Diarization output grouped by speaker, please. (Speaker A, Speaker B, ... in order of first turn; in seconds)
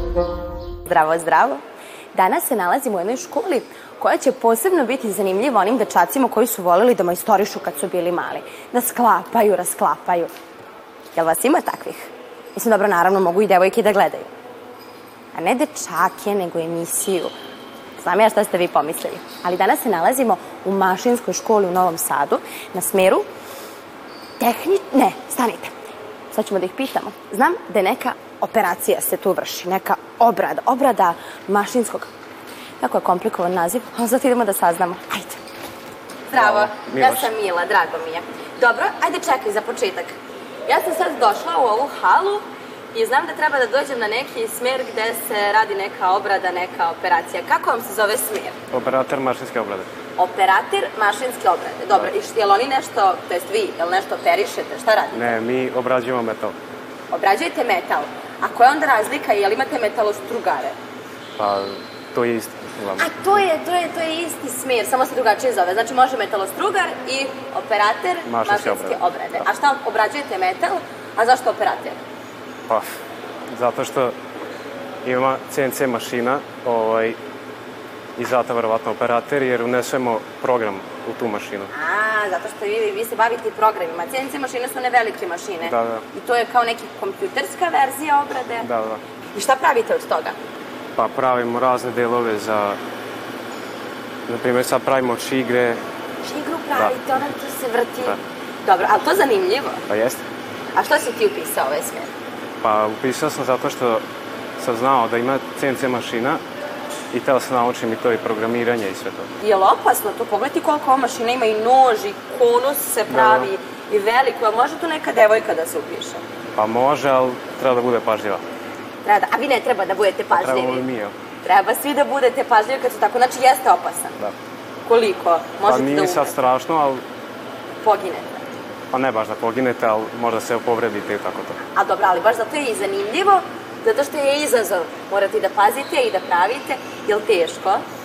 Speaker A: 0.9-1.6, 2.1-10.3, 11.1-14.3, 15.3-17.3, 18.0-23.2, 24.4-25.7, 26.3-32.1, 32.8-35.4, 36.3-48.6, 50.2-55.3, 57.1-60.8, 63.0-72.0, 81.7-88.7, 89.3-90.4, 96.2-99.8, 100.8-102.1, 109.4-116.2, 119.0-120.9, 121.4-124.2, 124.8-126.4, 127.8-128.4, 131.7-137.8
Speaker B: 36.4-37.3, 48.7-49.9, 55.1-56.6, 61.4-63.1, 68.3-69.4, 73.5-74.2, 75.0-77.2, 78.2-81.7, 85.6-86.0, 88.6-89.0, 91.0-92.8, 94.3-95.8, 99.9-100.2, 102.6-104.0, 104.6-106.4, 107.1-109.3, 113.1-113.5, 116.6-118.4, 120.3-121.1, 125.7-127.0, 128.9-131.6